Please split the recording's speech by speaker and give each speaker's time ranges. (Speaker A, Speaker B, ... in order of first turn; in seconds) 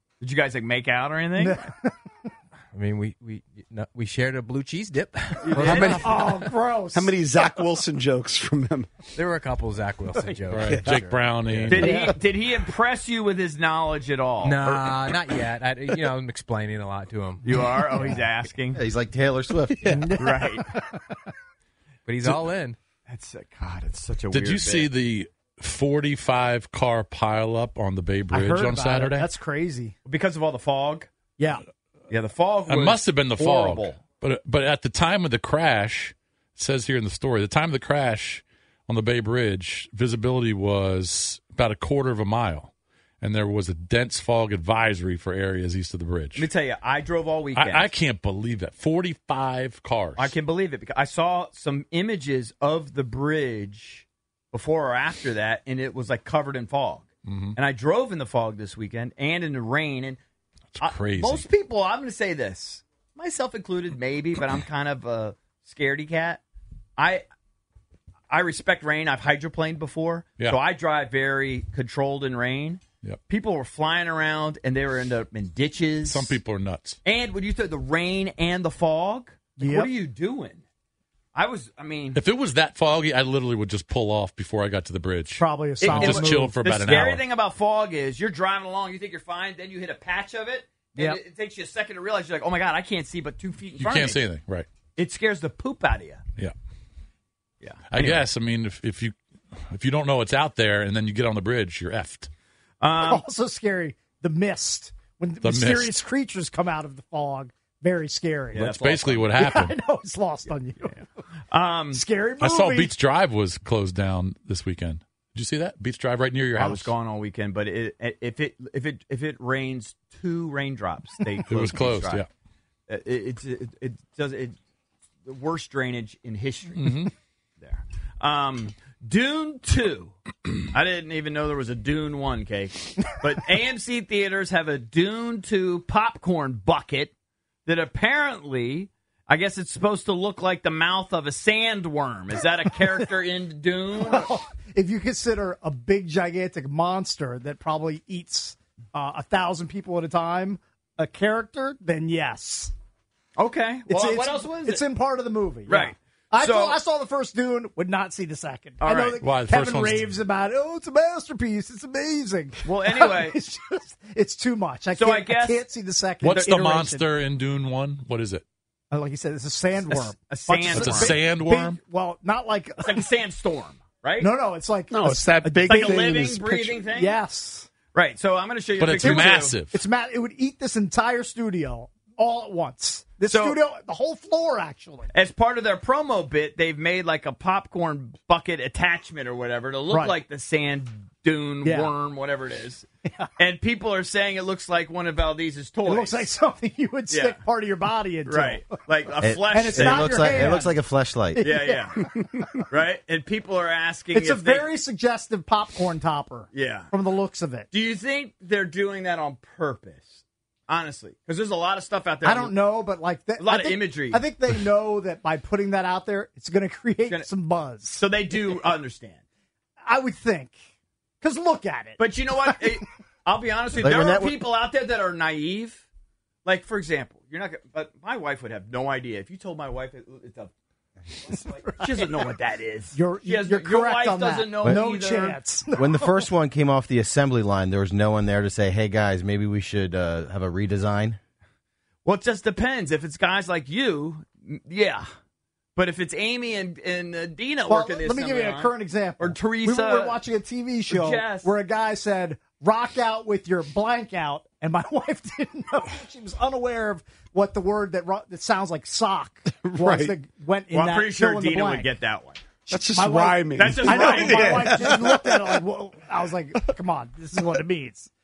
Speaker A: 0.2-1.6, 5.5-6.2, 11.7-14.6, 17.4-18.8, 20.2-20.7, 23.1-24.9, 30.1-31.1, 32.1-34.0, 46.4-47.9, 50.2-60.2, 60.8-66.4, 67.0-67.2, 68.3-76.4, 77.0-80.6, 81.3-82.2, 85.8-94.2, 95.0-96.2, 97.6-98.2, 102.8-103.2, 108.5-109.3, 111.5-112.0, 116.6-122.2, 122.9-124.6, 125.2-127.1, 127.6-130.2, 130.7-137.1, 137.7-144.3, 153.4-154.8, 155.7-156.8, 158.8-159.2, 162.7-163.4, 164.9-165.6, 169.9-171.2, 172.8-174.3, 175.7-177.2, 177.9-179.6, 183.3-183.6, 185.1-192.9, 193.4-196.3, 197.1-197.4, 198.3-200.7, 201.4-202.1, 202.7-204.7, 206.5-206.9, 207.7-212.6, 213.4-214.2, 218.0-219.2, 222.0-225.9, 226.4-230.5, 231.1-235.4, 242.1-245.1, 245.8-250.2, 250.9-251.5, 260.7-262.4, 263.6-264.9
Speaker B: 1.4-1.9, 5.8-7.2, 11.8-12.2, 19.9-21.0, 28.3-29.9, 79.6-79.9, 85.4-86.6, 91.0-91.2, 103.0-108.8, 109.3-111.0, 111.9-112.9, 144.0-152.7, 153.9-167.1, 168.9-173.1, 174.2-176.2, 176.9-177.7, 179.0-185.1, 189.9-190.2, 191.6-191.9, 195.9-198.7, 199.5-200.8, 201.3-202.3, 204.1-207.7, 212.2-218.1, 219.8-220.6, 221.2-222.7, 231.3-232.1, 232.9-236.1, 247.7-261.9, 262.7-268.1
Speaker C: 2.7-6.5, 9.2-11.9, 14.4-18.2, 22.1-22.8
Speaker D: 5.6-6.3, 6.9-8.9, 10.7-11.0, 174.9-176.8, 259.6-260.2, 262.7-265.6
Speaker E: 10.5-12.0, 24.3-29.3, 32.7-46.5, 47.5-50.3, 57.3-57.6, 60.8-61.5, 76.0-77.0, 82.1-87.2, 93.8-94.7, 97.9-102.3, 105.4-105.9, 108.6-109.8, 112.4-116.9, 121.5-122.3, 126.8-127.1, 159.2-160.1, 166.2-168.4, 170.7-171.8, 178.8-179.8
Speaker F: 18.8-20.1, 199.2-201.5, 223.8-224.3, 235.8-241.2